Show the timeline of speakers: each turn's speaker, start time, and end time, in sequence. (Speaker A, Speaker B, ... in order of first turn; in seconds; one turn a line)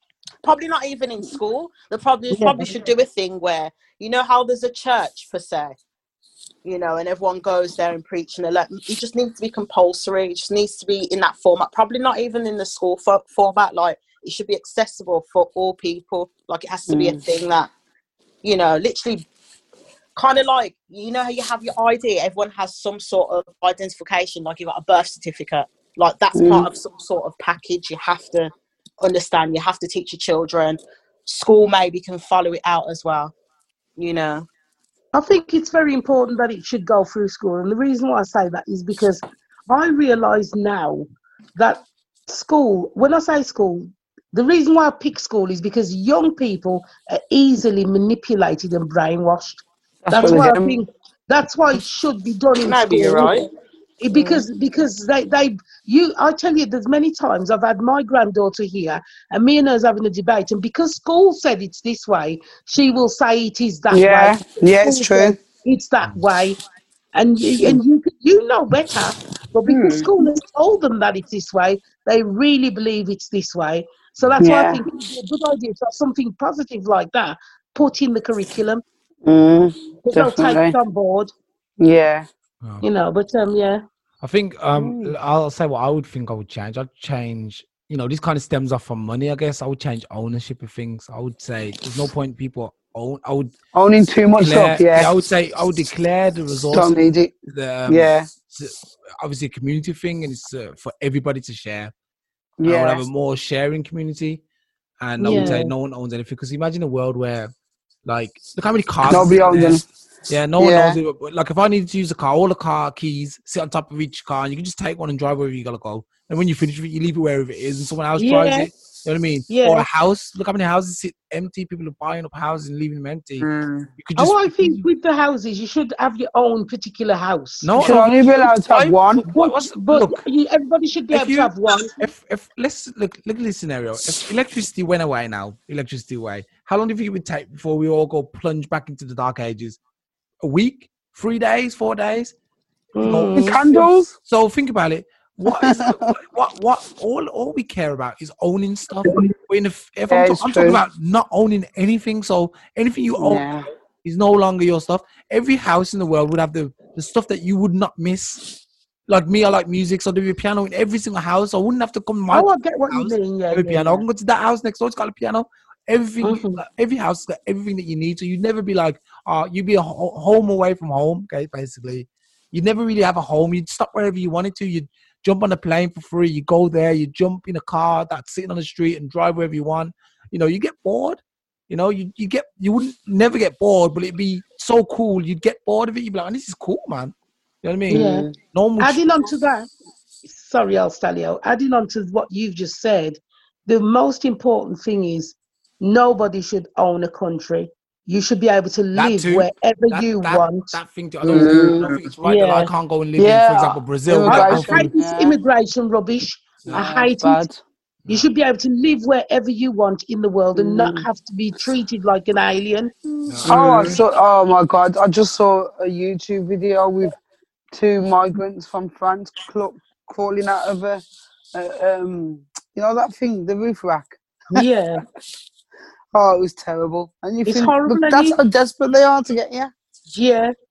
Speaker A: 0.4-5.8
Speaker B: 2.3-2.7
Speaker A: 6.6-17.7
Speaker C: 16.9-17.2
Speaker A: 18.4-19.3
Speaker A: 20.2-33.3
Speaker C: 26.3-26.7
Speaker A: 34.0-34.5
Speaker B: 35.1-53.4
Speaker C: 50.1-50.8
Speaker A: 52.6-53.5
Speaker B: 54.0-66.6
Speaker A: 54.1-54.5
Speaker C: 63.9-65.4
Speaker B: 67.1-78.8
Speaker C: 69.7-70.2
Speaker C: 74.4-74.8
Speaker C: 79.3-80.8
Speaker B: 80.1-81.3
Speaker C: 81.8-82.3
Speaker B: 82.8-83.8
Speaker D: 84.2-93.5
Speaker C: 84.8-85.2
Speaker C: 93.7-95.1
Speaker D: 94.4-97.0
Speaker C: 96.7-97.3
Speaker D: 97.5-101.9
Speaker C: 97.9-98.3
Speaker C: 102.6-103.0
Speaker D: 102.6-104.4
Speaker D: 105.0-107.5
Speaker C: 105.2-105.7
Speaker B: 105.2-105.7
Speaker D: 108.1-124.8
Speaker C: 109.1-109.8
Speaker C: 110.6-111.0
Speaker B: 118.2-118.7
Speaker B: 119.5-119.8
Speaker C: 123.4-123.9
Speaker B: 124.2-128.0
Speaker D: 127.6-130.2
Speaker C: 127.8-129.2
Speaker B: 129.3-131.9
Speaker D: 131.1-139.8
Speaker D: 140.4-142.3
Speaker B: 143.0-143.8
Speaker D: 143.0-143.6
Speaker C: 143.3-144.1
Speaker D: 144.3-153.5
Speaker C: 145.5-146.1
Speaker C: 150.1-150.8
Speaker C: 153.2-153.7
Speaker D: 154.0-158.4
Speaker D: 159.1-181.2
Speaker B: 162.3-164.1
Speaker B: 166.2-166.6
Speaker D: 181.7-189.0
Speaker C: 187.9-188.3
Speaker B: 187.9-188.3
Speaker B: 188.8-189.7
Speaker B: 190.2-200.8
Speaker D: 198.9-204.9
Speaker C: 201.2-202.0
Speaker B: 202.2-202.7
Speaker C: 203.2-205.4
Speaker B: 204.2-207.4
Speaker C: 206.7-207.6
Speaker B: 208.1-212.9
Speaker C: 210.6-211.1
Speaker C: 213.1-217.2
Speaker D: 213.3-213.9
Speaker B: 213.4-213.8
Speaker C: 217.7-221.0
Speaker C: 221.5-224.6
Speaker B: 224.5-225.0
Speaker C: 226.1-229.7
Speaker B: 227.5-228.4
Speaker B: 230.1-230.5